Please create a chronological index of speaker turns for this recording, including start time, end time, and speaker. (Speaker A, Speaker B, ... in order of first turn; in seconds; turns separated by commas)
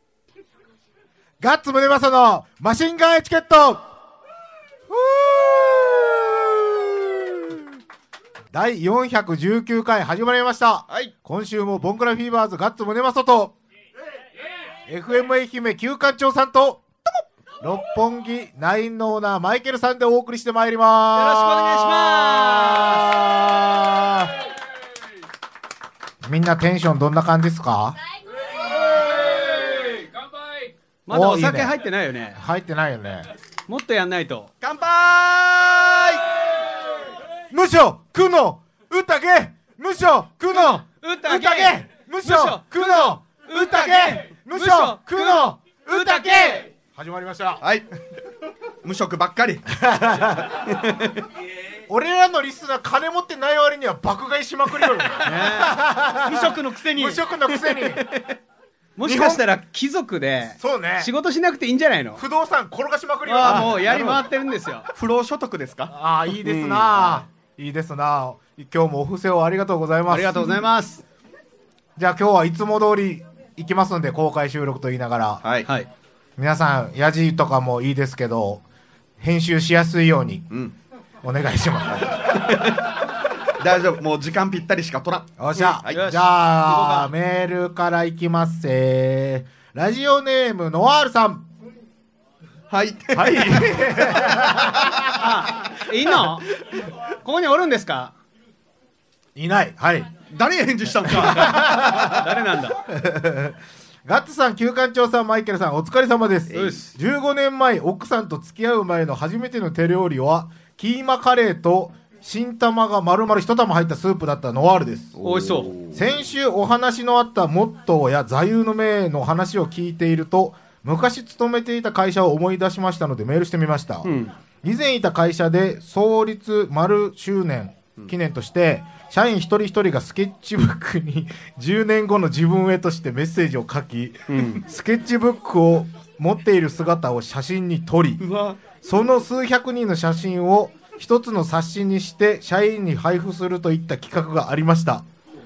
Speaker A: 1.4-3.9, Speaker A: 4.9-7.7, Speaker A: 8.5-13.5, Speaker A: 14.9-16.8, Speaker A: 17.6-24.3, Speaker B: 21.1-23.1, Speaker A: 26.2-28.0, Speaker B: 31.1-32.4, Speaker A: 31.1-31.8, Speaker A: 32.4-33.3, Speaker B: 33.7-34.5, Speaker C: 34.6-36.2, Speaker A: 37.5-47.6, Speaker B: 41.0-46.6, Speaker C: 47.6-47.9, Speaker C: 48.8-49.6, Speaker A: 49.7-50.6, Speaker C: 50.6-51.2, Speaker A: 51.9-58.0, Speaker B: 55.2-55.8, Speaker C: 56.2-58.4, Speaker B: 59.0-62.2, Speaker A: 59.1-59.4, Speaker C: 59.1-59.4, Speaker A: 60.6-61.1, Speaker A: 62.2-64.2, Speaker B: 63.3-64.9, Speaker C: 63.4-64.2, Speaker C: 65.0-65.9, Speaker A: 65.9-70.5, Speaker B: 66.4-67.2, Speaker B: 70.1-71.0, Speaker A: 72.0-75.5, Speaker A: 76.4-78.6, Speaker A: 79.2-80.5, Speaker C: 80.5-80.8, Speaker A: 81.2-82.4, Speaker C: 81.9-82.9, Speaker C: 83.6-86.0, Speaker A: 85.4-91.5, Speaker B: 85.6-87.1, Speaker C: 92.7-93.8, Speaker A: 93.1-95.2, Speaker B: 95.1-96.5, Speaker B: 97.2-98.2, Speaker A: 99.3-100.1, Speaker C: 100.3-101.7, Speaker A: 101.0-115.2, Speaker B: 101.4-102.8, Speaker C: 106.5-106.8, Speaker B: 106.5-106.9, Speaker C: 115.2-116.1, Speaker B: 115.2-115.7, Speaker A: 115.9-138.2, Speaker B: 124.0-124.3, Speaker B: 134.3-134.6, Speaker C: 138.2-138.6, Speaker A: 138.8-145.1